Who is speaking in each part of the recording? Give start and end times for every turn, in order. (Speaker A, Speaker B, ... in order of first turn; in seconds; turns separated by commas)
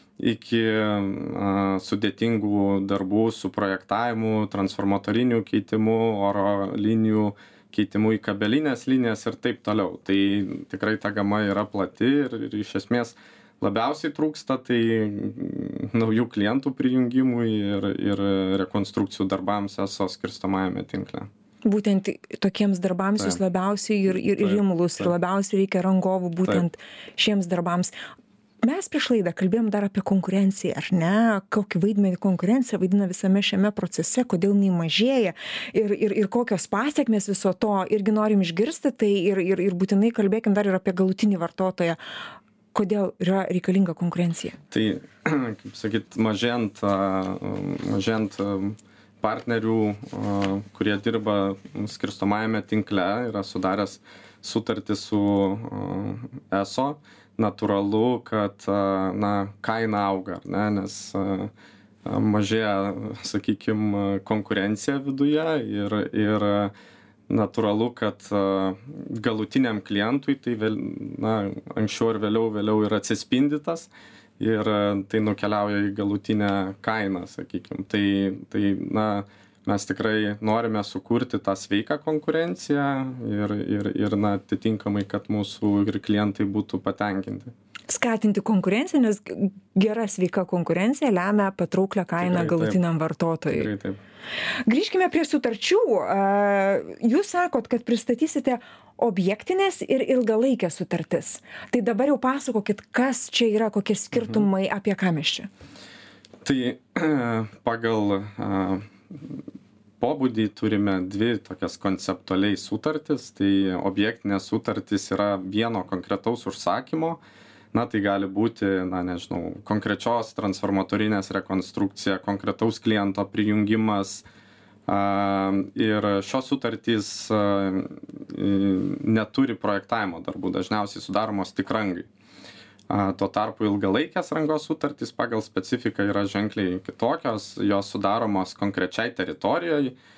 Speaker A: 0.2-21.3, Speaker B: 21.6-27.9, Speaker A: 24.1-25.1, Speaker B: 28.6-42.0, Speaker B: 42.7-44.6, Speaker A: 44.7-61.5, Speaker A: 62.0-66.7, Speaker A: 67.3-87.5, Speaker B: 87.9-93.7, Speaker A: 92.2-92.8, Speaker A: 93.5-94.0, Speaker B: 94.7-105.5, Speaker A: 106.4-109.3, Speaker A: 110.0-117.2, Speaker A: 117.7-124.3, Speaker A: 124.9-132.1, Speaker A: 132.9-140.0